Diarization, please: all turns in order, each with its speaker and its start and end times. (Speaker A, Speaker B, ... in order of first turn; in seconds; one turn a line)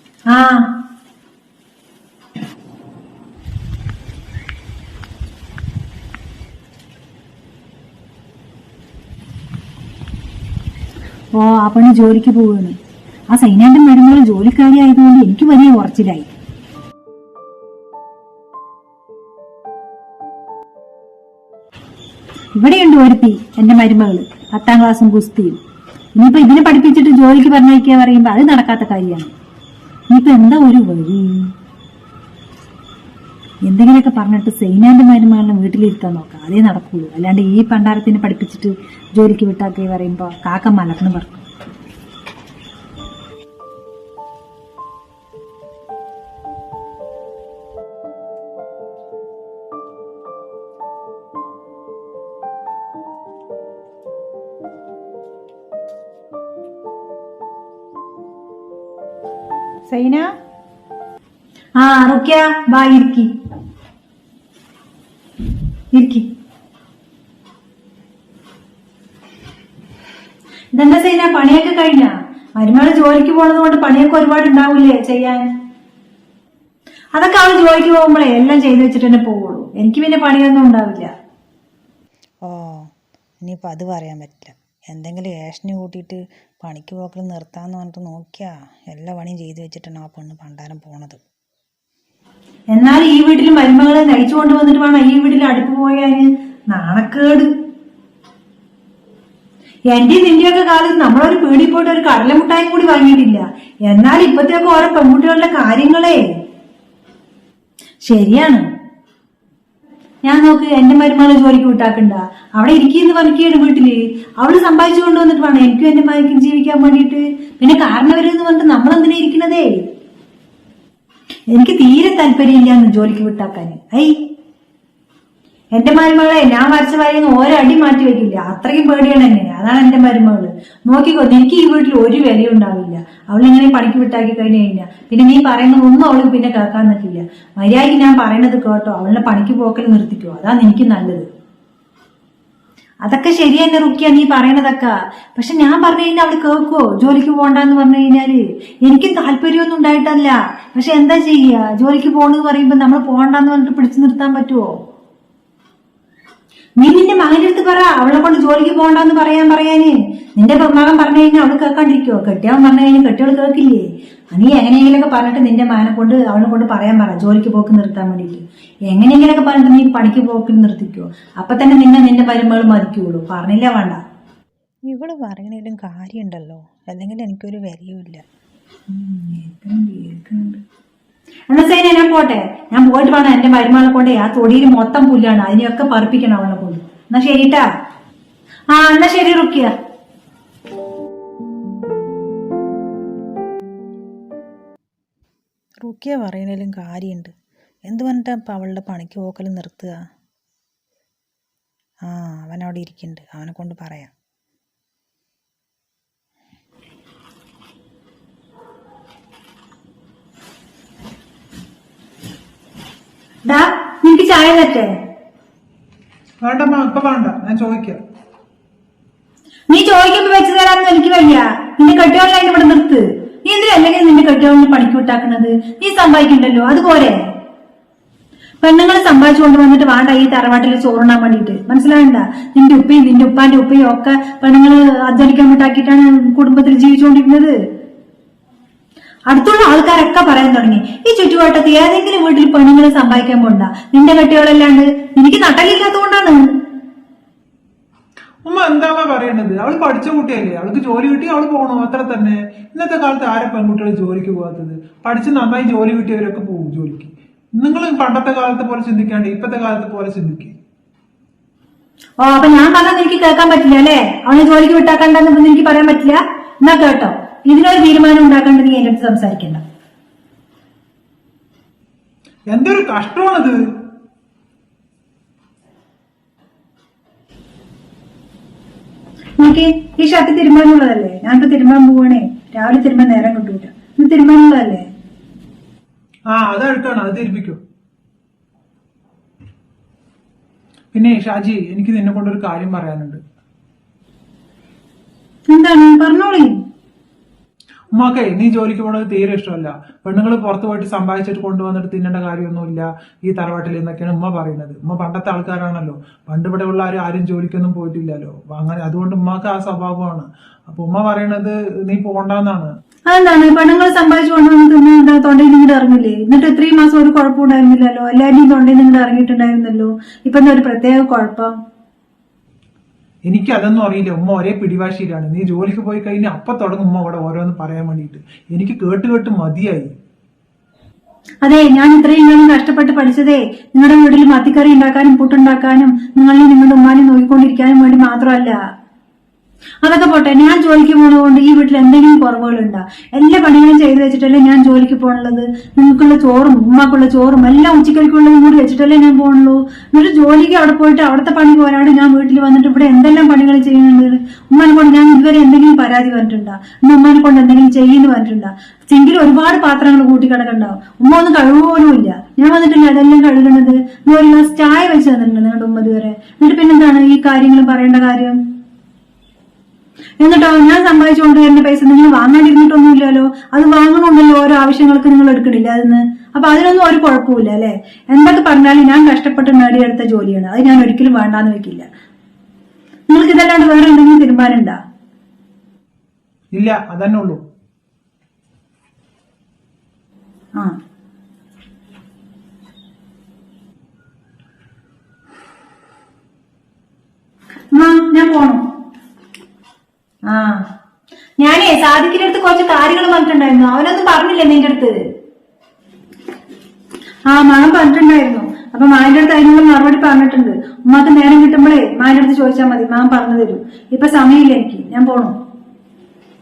Speaker A: 0.3-0.7
Speaker A: 11.3-12.8
Speaker A: 13.3-16.3
Speaker A: 22.6-25.6
Speaker A: 26.1-29.3
Speaker A: 30.1-31.5
Speaker A: 33.6-41.4
Speaker A: 59.9-60.3
Speaker A: 61.8-63.3
Speaker A: 65.9-66.3
Speaker A: 70.7-75.4
Speaker A: 77.2-81.1
Speaker B: 82.4-82.9
Speaker B: 83.4-91.2
Speaker A: 92.7-97.5
Speaker A: 99.9-106.2
Speaker A: 108.0-108.6
Speaker A: 110.2-119.8
Speaker A: 121.5-124.1
Speaker A: 125.7-141.3
Speaker A: 143.0-154.7
Speaker A: 156.8-174.0
Speaker B: 174.9-178.2
Speaker A: 178.9-180.6
Speaker A: 181.5-187.6
Speaker A: 188.7-189.7
Speaker B: 195.8-197.3
Speaker B: 197.9-200.0
Speaker B: 202.0-204.1
Speaker A: 213.5-214.9
Speaker C: 216.4-218.0
Speaker A: 219.7-227.2
Speaker A: 228.6-237.5
Speaker A: 239.3-246.5
Speaker C: 248.5-260.6
Speaker A: 262.2-269.6
Speaker C: 272.5-273.6
Speaker A: 279.4-284.9
Speaker C: 286.3-287.6
Speaker C: 290.9-293.2
Speaker A: 295.5-296.6
Speaker C: 298.0-312.7
Speaker A: 313.1-321.5
Speaker C: 323.3-329.9
Speaker A: 331.4-338.6
Speaker A: 339.8-368.4
Speaker A: 370.2-381.9
Speaker A: 383.1-384.8
Speaker C: 386.5-387.4
Speaker A: 397.7-398.6
Speaker A: 400.3-400.7
Speaker A: 401.4-405.0
Speaker A: 407.3-415.3